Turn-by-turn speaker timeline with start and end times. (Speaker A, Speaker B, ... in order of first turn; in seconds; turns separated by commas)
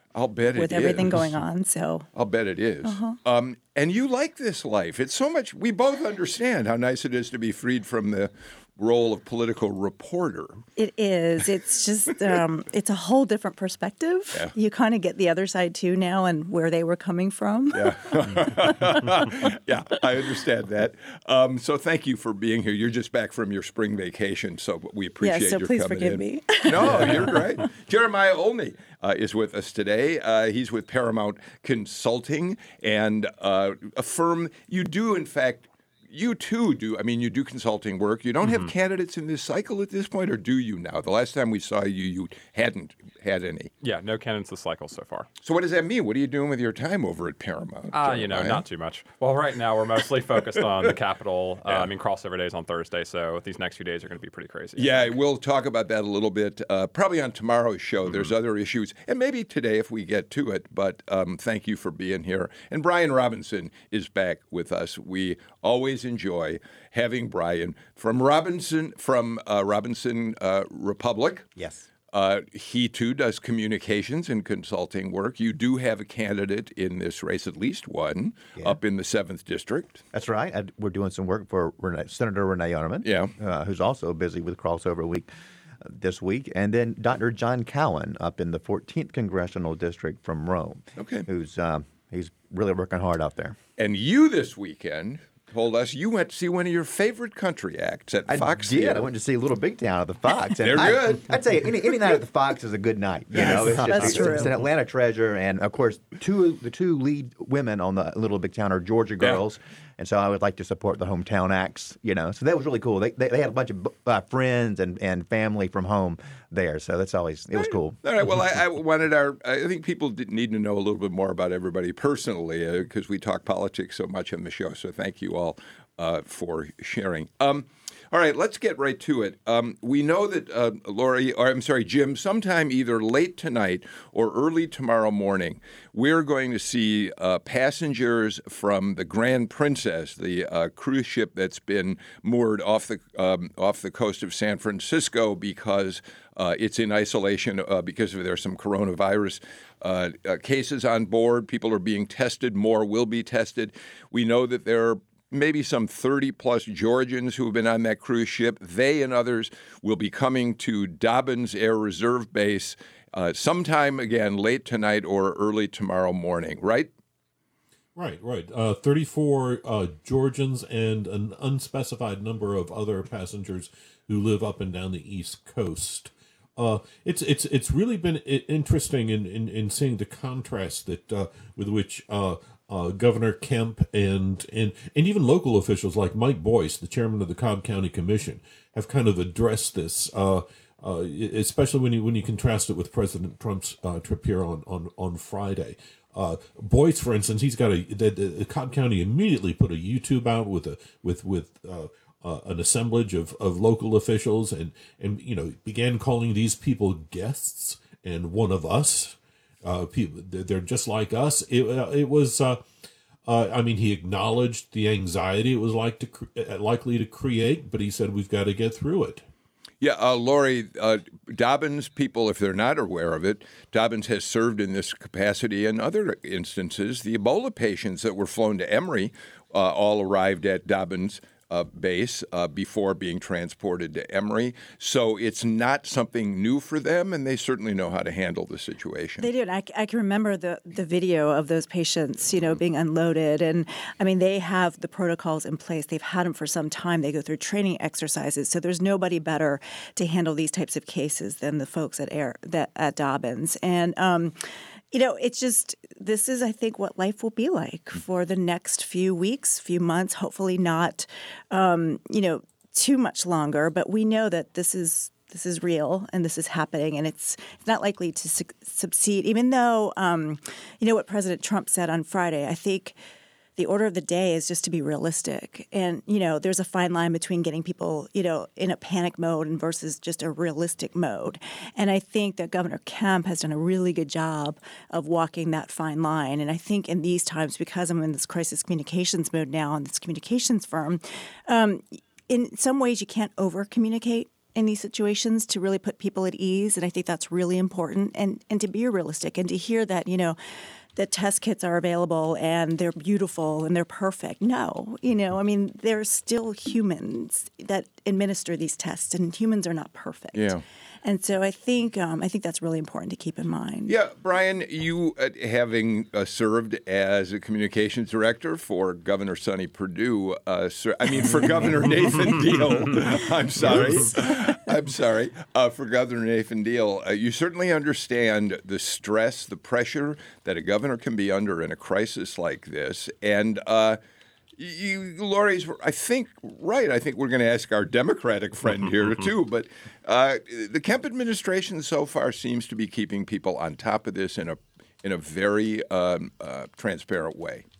Speaker A: 0.1-1.3, Speaker B: 0.6-2.0, Speaker A: 2.1-10.6, Speaker B: 2.8-3.2, Speaker B: 10.8-18.7, Speaker A: 17.7-43.7, Speaker B: 25.2-27.5, Speaker C: 38.4-38.7, Speaker C: 43.8-45.3, Speaker A: 45.4-48.6, Speaker C: 47.9-55.1, Speaker A: 50.6-50.9, Speaker A: 51.6-51.9, Speaker A: 54.8-71.5, Speaker D: 71.5-71.8, Speaker A: 72.1-80.0, Speaker D: 80.1-85.3, Speaker A: 83.0-83.3, Speaker D: 85.8-93.6, Speaker A: 91.0-91.3, Speaker A: 93.8-99.1, Speaker D: 98.3-118.0, Speaker A: 100.6-101.4, Speaker A: 103.3-104.5, Speaker B: 103.4-104.5, Speaker A: 117.6-166.9, Speaker E: 167.9-212.6, Speaker E: 213.2-219.2, Speaker A: 219.8-239.3, Speaker B: 239.2-254.4, Speaker B: 254.9-272.9, Speaker B: 273.6-300.4, Speaker B: 300.9-313.9, Speaker A: 310.3-310.6, Speaker A: 313.9-334.0, Speaker A: 334.6-347.6